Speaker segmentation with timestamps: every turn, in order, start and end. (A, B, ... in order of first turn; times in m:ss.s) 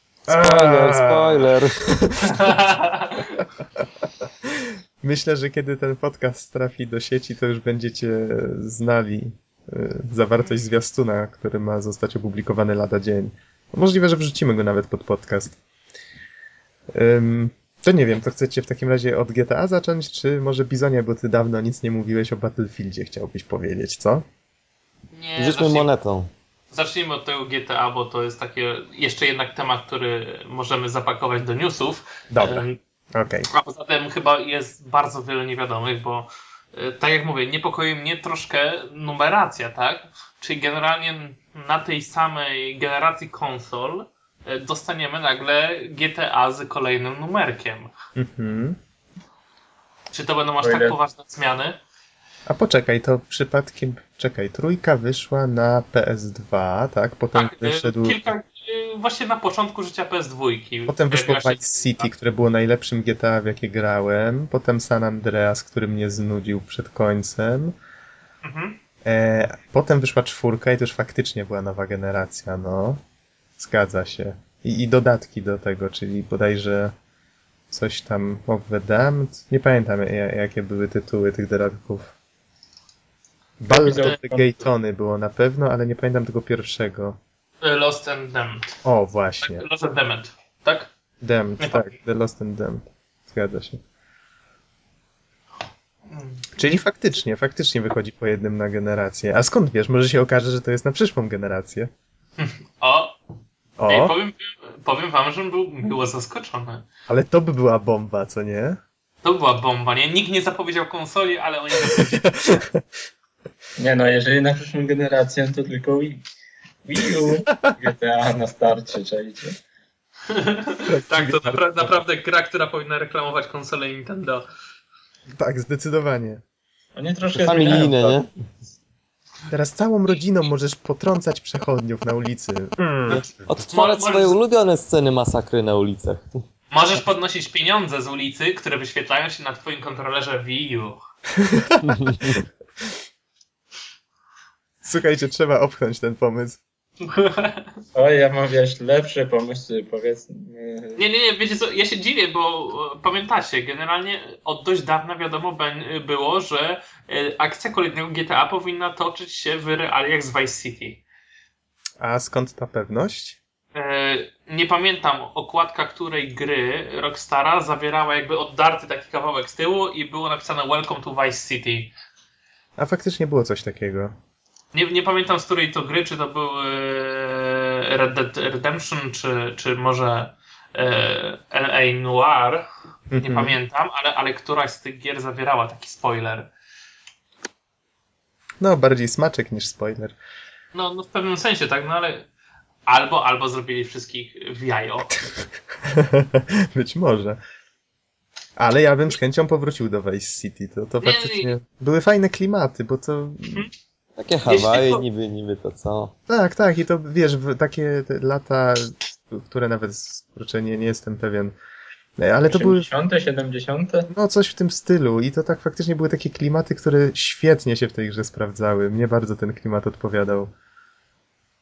0:00.3-0:02.6 A
0:00.3-0:01.8 B
0:02.2-0:03.4 C
0:04.2-0:15.6 A
0:16.9-0:24.2 A
0:25.1-0:25.9 C
0:25.4-0:26.3 B
0:26.7-0:32.8 C
0:32.3-0:33.5 A
0:33.5-0:47.9 C
0:48.2-0:48.8 A
0:50.1-0:51.8 C
0:50.6-0:51.0 D
0:52.5-0:58.2 A
0:57.4-1:01.6 C
1:00.9-1:07.8 A
1:08.4-1:08.8 C
1:09.0-1:13.0 A
1:13.6-1:17.0 A
1:17.7-1:22.1 A
1:23.6-1:27.2 A
1:23.7-1:24.5 D
1:23.8-1:24.2 C
1:27.6-1:28.7 C
1:28.8-1:29.6 A
1:29.4-1:30.9 C
1:31.2-1:33.8 A
1:31.6-1:31.9 C
1:36.1-1:36.4 C
1:36.6-1:41.9 A
1:42.4-1:43.2 C
1:43.8-1:44.1 A
1:43.9-1:46.8 C
1:47.1-1:48.8 A
1:49.2-1:52.6 C
1:51.8-1:52.8 A
1:53.8-1:56.2 D
1:56.9-1:59.6 D
2:00.3-2:04.5 C
2:00.9-2:02.0 A
2:05.4-2:06.4 A
2:07.0-2:08.2 D
2:07.3-2:08.3 B
2:09.5-2:13.2 A
2:13.1-2:14.4 C
2:13.1-2:16.4 B
2:16.7-2:21.0 C
2:21.4-2:22.4 A
2:21.8-2:22.4 B
2:24.8-2:26.6 A
2:27.0-2:27.7 C
2:28.0-2:31.0 D
2:31.0-2:41.0 C
2:42.0-2:43.4 A
2:43.7-2:51.9 C
2:52.8-2:54.1 A
2:54.7-3:02.7 C
3:03.1-3:03.6 A
3:03.2-3:06.5 C
3:08.6-3:10.2 A
3:10.7-3:12.3 C
3:12.9-3:15.2 C
3:15.8-3:17.4 A
3:18.6-3:23.7 A
3:21.0-3:21.5 C
3:24.2-3:26.1 B
3:24.5-3:25.0 C
3:26.3-3:31.6 A
3:32.2-3:32.9 A
3:32.5-3:34.1 D
3:34.1-3:40.5 A